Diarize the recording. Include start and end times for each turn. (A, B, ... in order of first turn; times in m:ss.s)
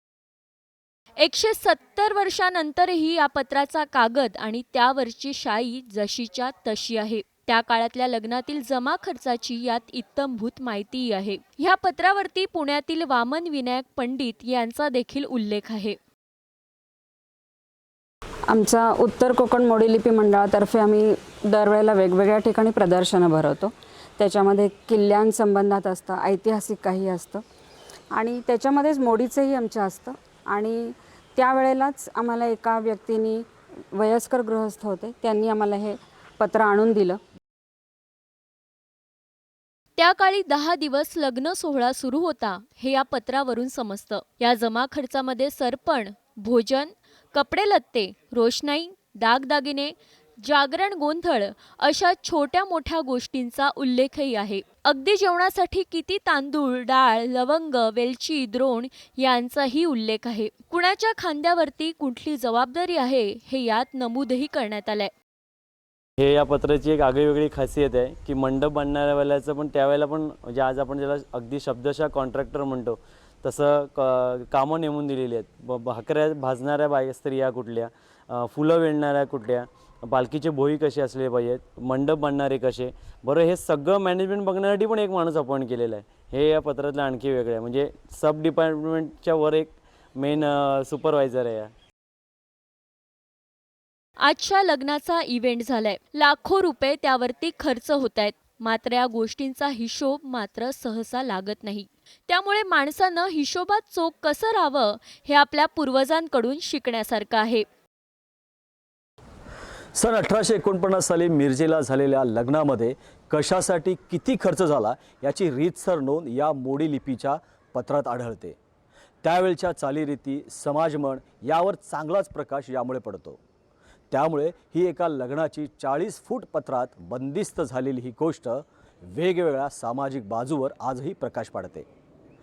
0:01.2-0:16.0 A
0:18.5-0:27.4 B
0:28.1-0:37.2 B
0:40.0-1:05.1 A
1:06.2-1:31.7 C
1:34.2-1:47.6 A
1:49.9-1:58.6 D
1:59.2-2:03.4 D
2:04.1-2:11.8 D